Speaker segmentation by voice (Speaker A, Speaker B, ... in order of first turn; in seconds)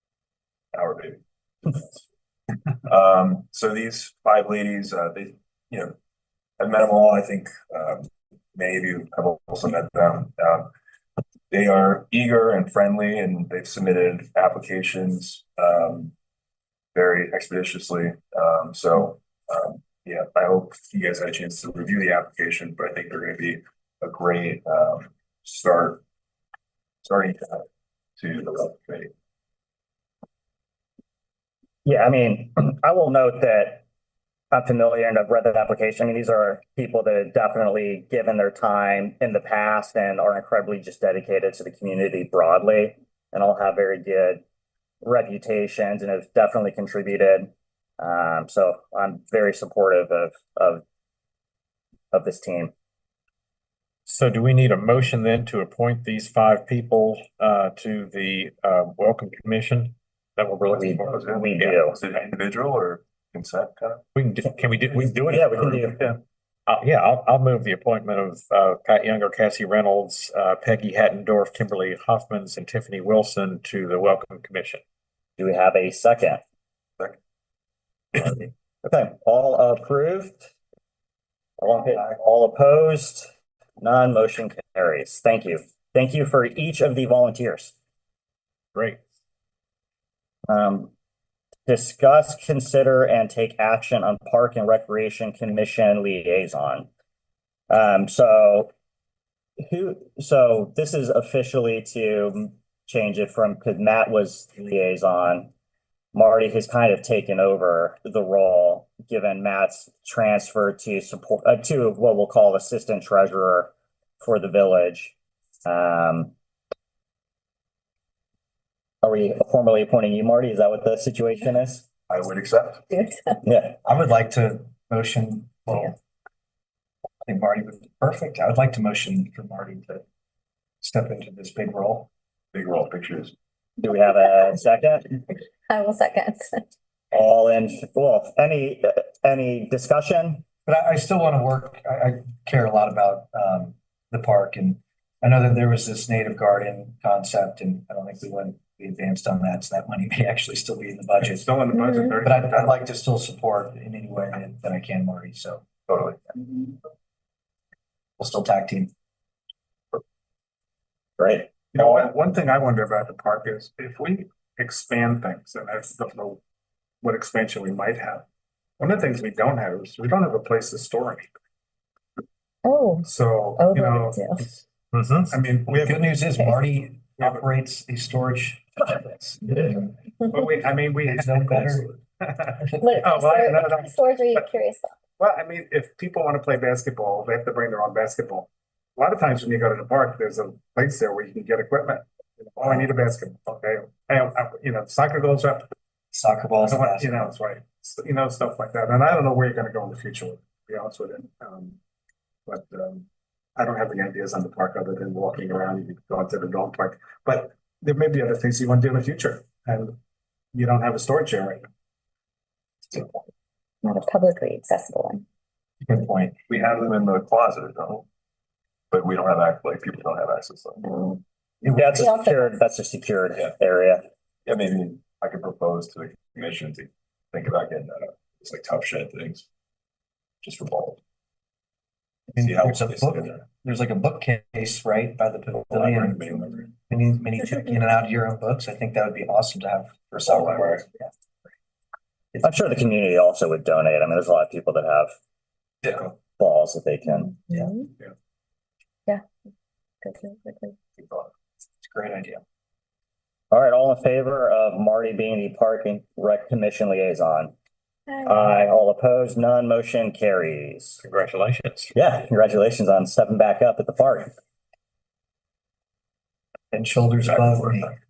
Speaker A: 0.7-1.2, 2.9-5.9, 6.6-10.7, 11.5-16.1, 16.9-26.0, 27.0-27.6, 28.2-29.1, 62.0-64.0, 122.1-122.8, 132.5-133.3, 155.9-156.2, 216.5-218.0, 218.9-220.9, 224.4-229.4, 230.4-231.0, 232.4-233.4, 235.7-236.7
Speaker B: 31.8-33.8, 34.5-44.4, 45.0-50.8, 52.1-52.7, 60.8-62.0, 65.2-66.0, 75.4-76.4, 78.2-80.5, 81.6-83.3, 83.8-87.7, 90.5-90.9, 91.7-96.9, 97.7-98.7, 99.6-105.5, 106.1-116.3, 119.0-121.8, 123.4-123.8, 133.8-135.2, 137.1-140.4, 161.2-162.1, 221.7-224.0, 242.4-245.1, 246.1-247.3, 253.5-257.5, 258.2-261.0, 261.9-264.3
Speaker C: 54.1-61.8, 64.1-74.8, 174.9-175.4, 261.0-261.9
Speaker D: 122.9-123.4, 135.7-136.6, 151.7-152.2, 172.6-174.6, 176.3-176.6, 182.7-184.9, 213.8-215.2, 221.8-222.6, 247.3-247.9, 250.0-250.8, 258.1-258.4
Speaker E: 123.8-125.9, 127.2-130.0, 130.8-132.1, 140.7-151.5, 152.2-155.7, 158.2-158.9, 175.7-179.9, 181.0-181.9, 196.1-197.3, 215.8-216.4, 221.6-222.0, 232.3-240.9, 251.8-252.4, 266.7-267.9
Speaker F: 151.3-152.7, 161.7-166.4, 167.0-168.2, 168.8-171.3, 173.1-174.2, 175.3-175.9, 180.3-183.9, 185.2-195.7, 196.6-201.8, 202.5-209.9, 210.5-211.7